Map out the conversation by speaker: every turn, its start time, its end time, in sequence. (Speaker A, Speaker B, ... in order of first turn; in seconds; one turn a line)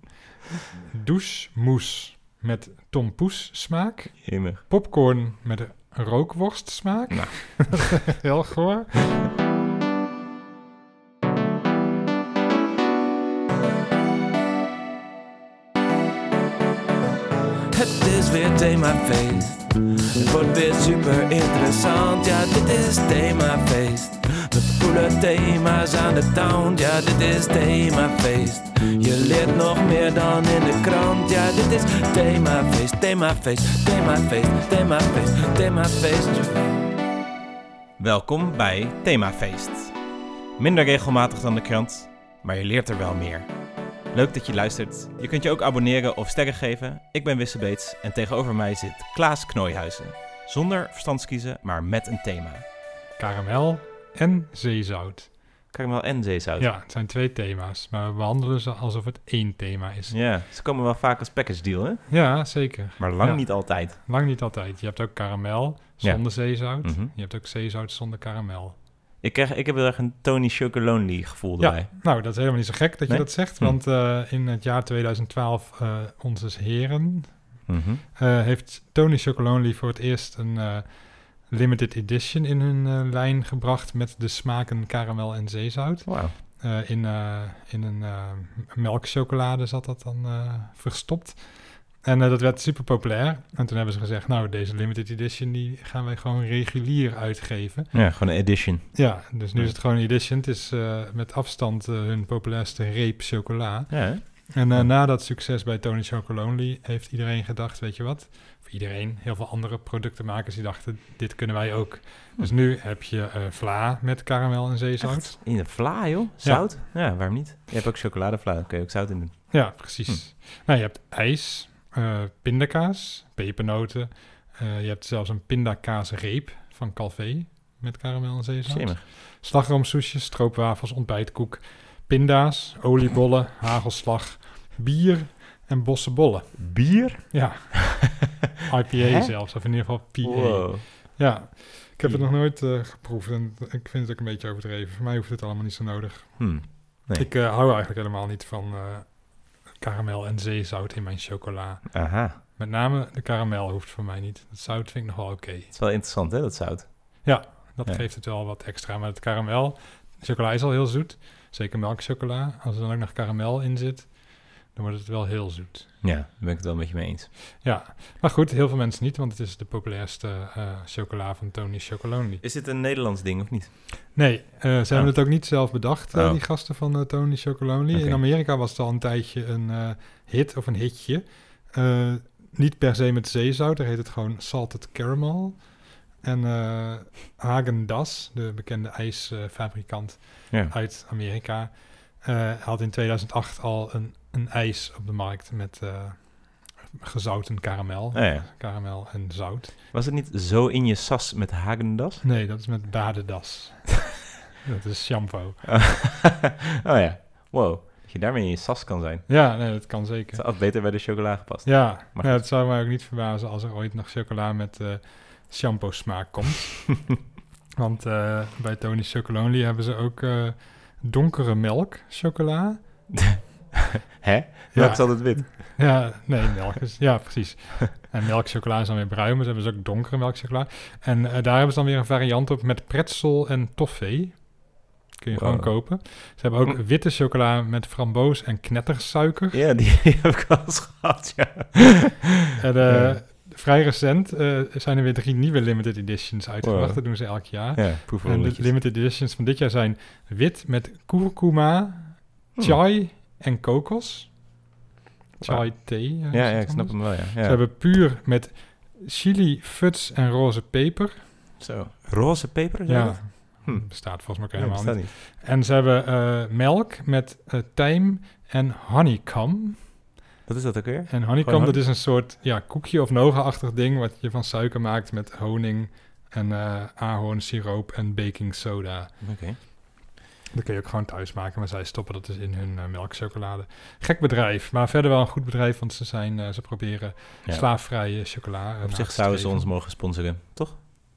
Speaker A: 0.9-9.2
Speaker B: 4.2-4.6
Speaker B: 7.1-8.0
Speaker C: 17.7-36.9
Speaker B: 38.0-40.0
Speaker B: 40.6-43.5
Speaker B: 44.1-52.6
Speaker A: 53.2-55.4
Speaker B: 55.7-56.7
Speaker A: 56.6-60.1
Speaker B: 60.1-64.0
Speaker A: 62.1-68.8
Speaker B: 66.0-67.1
Speaker B: 69.2-72.3
Speaker A: 71.6-116.8
Speaker B: 73.1-73.8
Speaker B: 77.7-78.0
Speaker B: 86.0-86.3
Speaker B: 97.9-99.8
Speaker B: 103.9-104.9
Speaker B: 115.0-120.2
Speaker A: 119.5-155.7
Speaker B: 128.7-129.0
Speaker B: 136.6-137.8
Speaker B: 139.0-139.3
Speaker B: 140.2-141.2
Speaker B: 142.0-142.3
Speaker B: 146.4-147.3
Speaker B: 151.9-152.4
Speaker B: 155.7-157.3
Speaker A: 157.2-166.0
Speaker B: 166.0-167.3
Speaker A: 167.6-172.4
Speaker B: 172.4-173.8
Speaker A: 174.1-199.7
Speaker B: 174.9-176.4
Speaker B: 177.9-178.2
Speaker B: 198.1-198.5
Speaker B: 199.9-202.2
Speaker A: 202.2-205.7
Speaker B: 205.6-212.4
Speaker A: 209.3-210.9
Speaker A: 211.6-217.2
Speaker A: 217.8-222.8
Speaker B: 223.1-226.1
Speaker A: 224.7-239.6
Speaker B: 235.3-236.0
Speaker B: 239.5-242.2
Speaker A: 242.5-254.5
Speaker B: 242.8-243.2
Speaker B: 246.6-248.7
Speaker B: 252.6-252.8
Speaker A: 255.4-261.3
Speaker B: 255.4-257.6
Speaker B: 261.6-265.1
Speaker A: 262.9-270.1
Speaker B: 270.4-271.8
Speaker A: 271.1-279.7
Speaker B: 279.2-279.6
Speaker A: 280.5-289.7
Speaker B: 287.4-287.7
Speaker B: 288.8-290.8